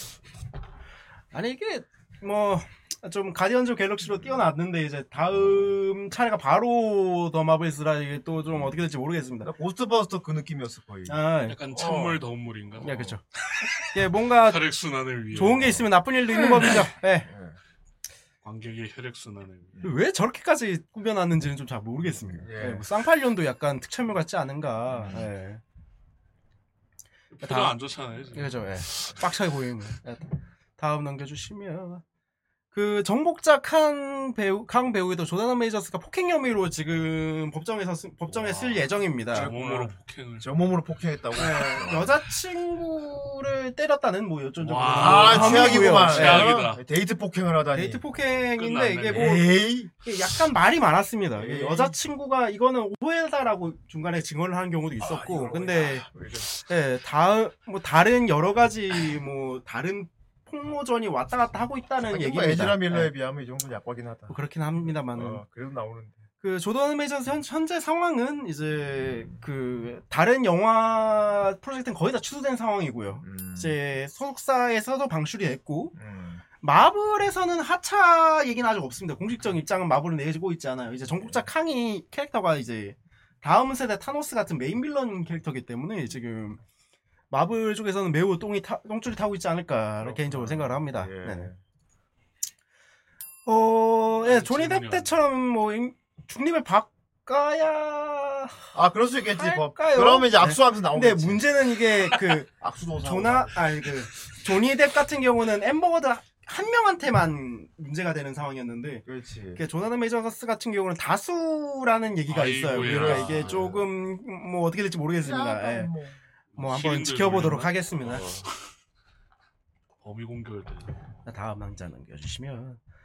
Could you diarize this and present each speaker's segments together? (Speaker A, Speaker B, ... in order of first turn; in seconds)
Speaker A: 1.3-9.5, 11.1-11.6, 12.8-13.2, 13.9-14.6, 15.3-17.3, 19.8-25.6, 27.4-27.7, 28.3-32.0, 32.7-39.5, 41.4-46.5, 47.7-56.0, 56.6-63.1, 64.3-65.4, 66.4-75.9, 76.6-86.6, 87.3-91.5, 93.5-98.6, 99.3-102.5, 103.0-115.9, 116.6-118.2, 121.2-122.8
Speaker B: 5.3-5.7, 9.4-12.2, 12.9-13.1, 16.3-17.6, 22.4-22.8, 24.9-25.3, 39.3-42.1, 44.9-48.0, 49.1-49.9, 51.4-51.9, 55.0-56.5, 62.1-66.2, 73.2-73.8, 75.9-76.4, 90.0-91.6, 98.7-101.5, 102.5-103.6, 109.0-109.6, 112.8-113.8, 115.2-116.2, 118.0-118.4
Speaker C: 11.5-13.0, 14.4-15.9, 18.4-19.8, 27.4-29.1, 38.3-40.5, 44.6-46.8, 48.5-49.4, 94.2-95.2, 112.3-113.8, 116.5-117.9, 120.0-120.9